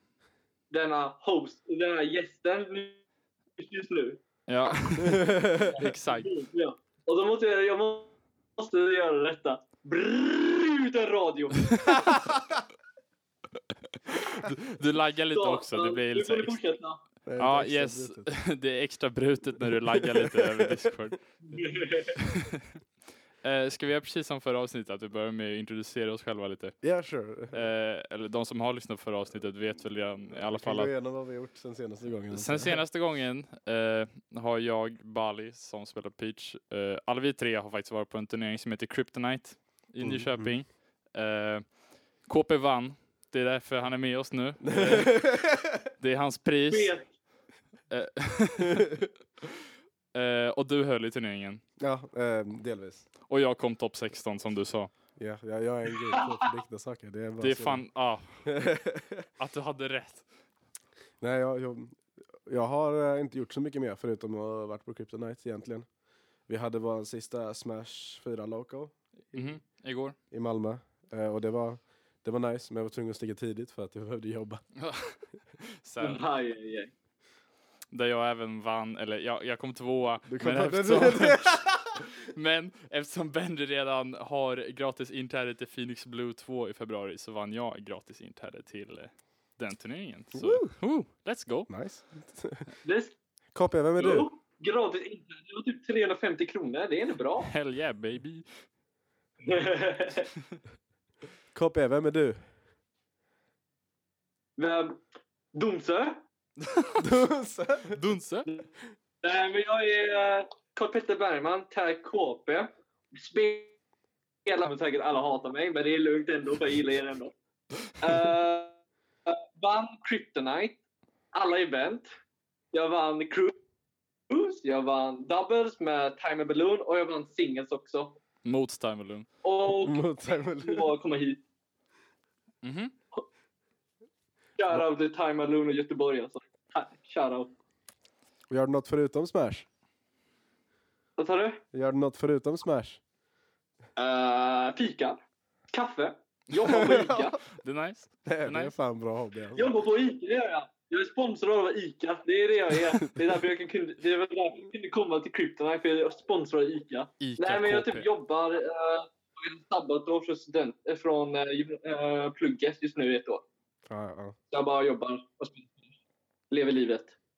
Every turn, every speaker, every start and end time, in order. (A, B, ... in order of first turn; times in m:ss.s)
0:00.7-0:03.0 A
0:03.6-0:04.2 A
0:04.5-0:06.3 B
0:05.0-0:05.7 C
0:05.6-0:12.0 A
0:14.1-0:16.6 B
0:15.3-0:17.0 A
0:17.2-0:18.3 C
0:17.4-0:21.6 B
0:19.8-0:20.8 C
0:21.4-0:22.2 A
0:22.2-0:22.6 B
0:23.4-0:26.8 B
0:26.8-0:27.7 C
0:27.5-0:30.9 B
0:30.4-0:32.8 C
0:32.3-0:45.4 B
0:40.0-0:40.6 C
0:44.6-0:45.8 C
0:46.0-0:47.0 B
0:46.7-0:47.1 A
0:47.9-0:49.0 B
0:50.1-0:51.6 B
0:51.8-0:53.0 C
0:53.3-0:54.9 B
0:55.2-0:57.9 C
0:56.2-0:56.5 A
0:57.4-0:58.6 B
0:58.4-0:59.3 C
0:59.4-1:00.3 B
1:01.2-1:05.9 C
1:06.5-1:09.6 C
1:09.3-1:10.2 B
1:10.3-1:14.6 C
1:14.8-1:16.2 B
1:16.0-1:16.9 A
1:17.9-1:31.7 B
1:20.3-1:22.0 C
1:30.4-1:30.7 C
1:31.7-1:32.7 C
1:32.8-1:33.1 A
1:33.5-1:34.3 C
1:34.0-1:37.5 A
1:37.4-1:38.5 B
1:39.4-1:40.3 A
1:41.5-1:42.5 C
1:44.6-1:45.0 A
1:45.5-1:46.2 A
1:46.8-1:47.0 B
1:47.0-1:48.0 C
1:47.9-1:48.5 B
1:49.2-1:53.7 A
1:54.4-1:57.3 A
1:58.0-2:00.8 A
2:01.3-2:02.1 A
2:02.7-2:03.6 A
2:04.3-2:08.2 A
2:08.4-2:09.3 B
2:09.4-2:11.4 A
2:09.8-2:10.9 C
2:12.6-2:12.9 B
2:14.6-2:17.5 A
2:18.5-2:19.7 C
2:21.2-2:21.6 A
2:21.7-2:23.0 C
2:24.0-2:25.2 A
2:25.7-2:27.4 A
2:26.6-2:27.4 C
2:27.4-2:28.7 B
2:28.2-2:29.7 C
2:29.6-2:43.4 A
2:33.0-2:33.4 C
2:37.2-2:38.1 B
2:43.8-2:44.4 C
2:44.5-2:45.8 A
2:46.5-2:47.2 A